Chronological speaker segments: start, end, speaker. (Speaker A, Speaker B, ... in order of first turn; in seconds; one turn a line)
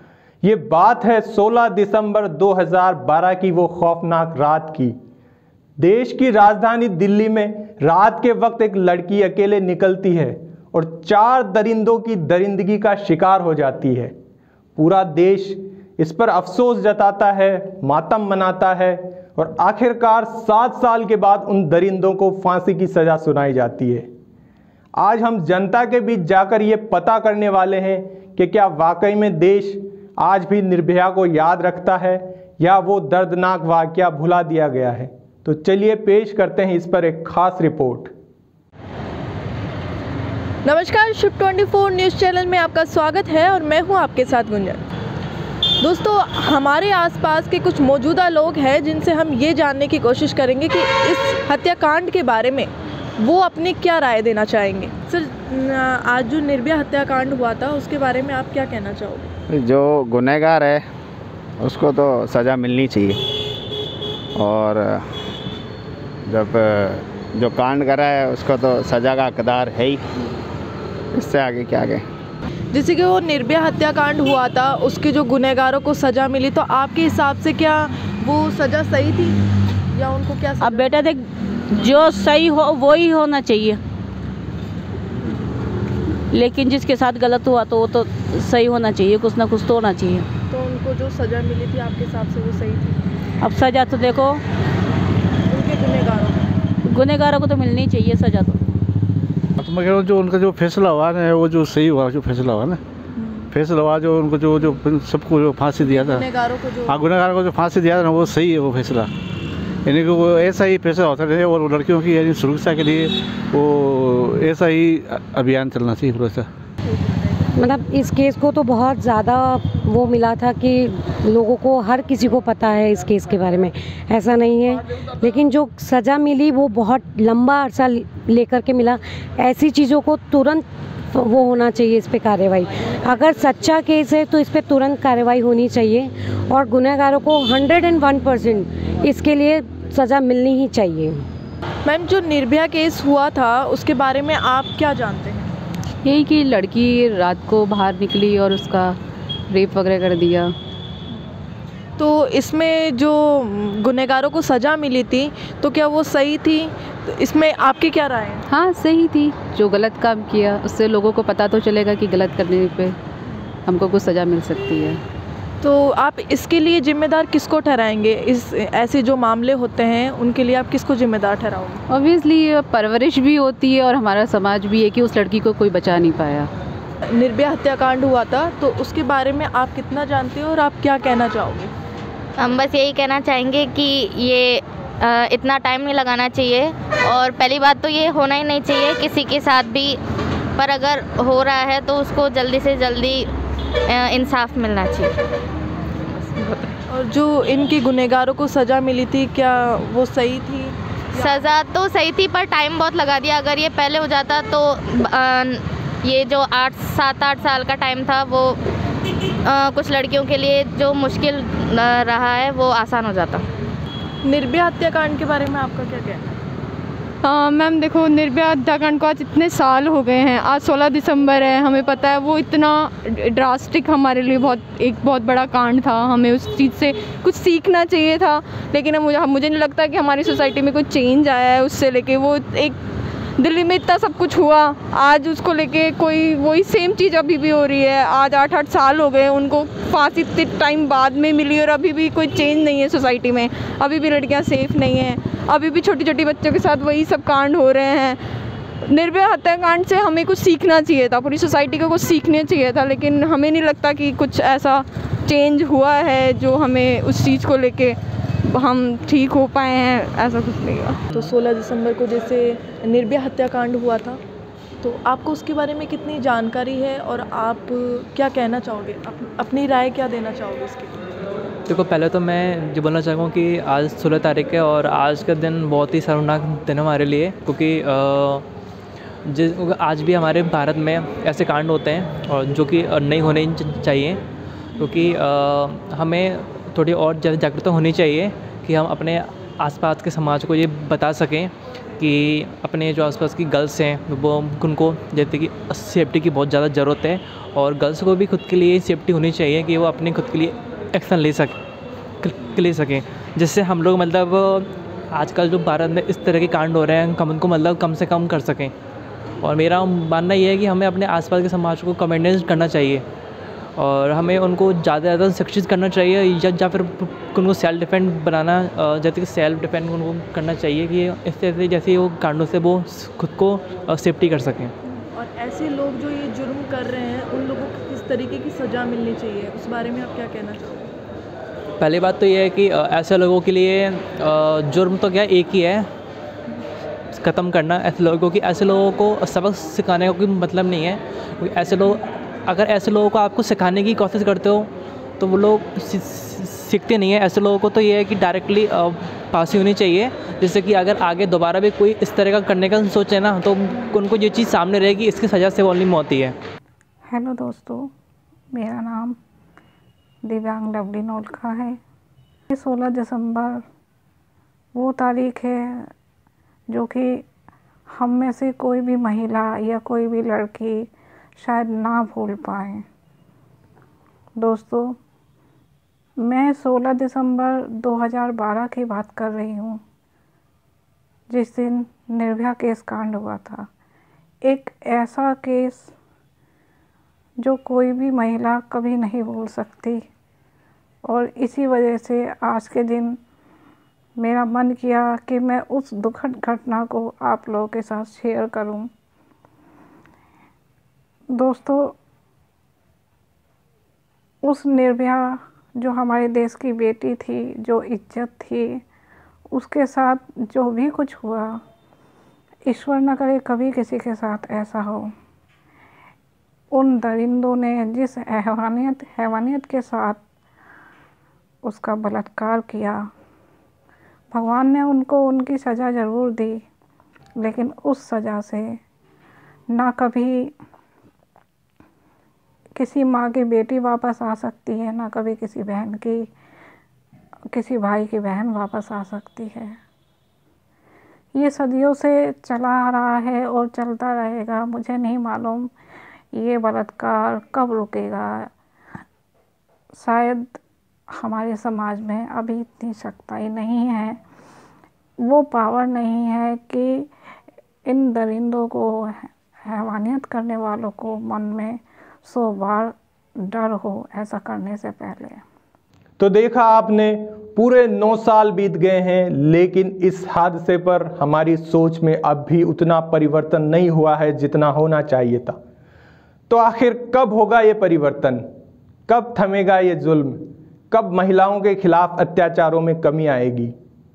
Speaker A: 0.4-4.9
Speaker A: 5.8-14.1
Speaker A: 14.8-24.1
Speaker A: 24.9-38.1
Speaker B: 40.6-44.8
Speaker B: 45.8-59.3
Speaker C: 59.5-60.8
Speaker C: 61.6-63.2
Speaker C: 64.3-65.0
Speaker C: 66.2-70.0
Speaker C: 71.2-72.0
Speaker B: 72.7-79.3
Speaker B: 79.9-81.2
Speaker D: 80.6-81.1
Speaker D: 81.7-83.8
Speaker D: 86.3-90.3
Speaker B: 90.5-93.0
Speaker D: 93.4-94.4
Speaker B: 95.5-96.4
Speaker D: 96.8-98.6
Speaker E: 99.6-102.8
Speaker B: 103.2-103.5
Speaker E: 103.5-106.3
Speaker B: 105.8-107.0
Speaker E: 106.8-109.1
Speaker E: 109.8-116.5
Speaker F: 117.6-141.2
Speaker B: 141.8-145.5
Speaker G: 146.0-149.0
Speaker G: 149.5-150.5
Speaker B: 152.0-158.4
Speaker G: 158.5-163.0
Speaker G: 163.7-165.0
Speaker B: 165.6-171.8
Speaker G: 171.9-176.5
Speaker B: 177.1-181.7
Speaker H: 182.4-190.0
Speaker H: 190.6-193.3
Speaker H: 193.9-195.1
Speaker H: 196.3-196.6
Speaker B: 196.9-201.4
Speaker H: 201.2-208.6
Speaker H: 209.4-213.4
Speaker B: 214.2-216.3
Speaker I: 217.2-232.8
Speaker I: 233.4-248.2
Speaker I: 248.9-261.0
Speaker B: 261.1-264.2
Speaker B: 264.8-271.1
Speaker J: 271.7-278.4
Speaker J: 279.2-284.2
Speaker J: 284.8-301.5
Speaker J: 302.2-308.7
Speaker J: 309.4-313.0
Speaker J: 313.8-324.7
Speaker B: 325.1-330.9
Speaker J: 331.8-335.9
Speaker J: 337.1-356.4
Speaker K: 357.1-357.9
Speaker K: 358.5-359.2
Speaker K: 360.2-361.8
Speaker K: 362.5-363.6
Speaker K: 364.7-365.9
Speaker K: 366.7-367.2
Speaker K: 367.9-372.8
Speaker K: 374.4-375.0
Speaker K: 376.2-379.8
Speaker K: 381.3-383.7
Speaker K: 384.4-385.9
Speaker K: 387.4-390.0
Speaker K: 391.0-393.2
Speaker K: 394.2-398.9
Speaker K: 401.3-401.9
Speaker K: 404.4-408.8
Speaker K: 409.5-411.6
Speaker K: 412.7-415.1
Speaker K: 416.7-420.2
Speaker K: 421.6-423.1
Speaker K: 424.3-426.6
Speaker K: 427.4-428.8
Speaker K: 429.7-430.5
Speaker K: 432.8-436.3
Speaker K: 437.5-439.8
Speaker K: 441.3-445.7
Speaker K: 446.3-448.5
Speaker K: 449.9-450.6
Speaker K: 451.1-454.2
Speaker K: 455.2-457.1
Speaker K: 457.9-465.4
Speaker A: 466.2-475.6
Speaker A: 476.5-478.4
Speaker A: 479.1-480.4
Speaker A: 480.9-483.7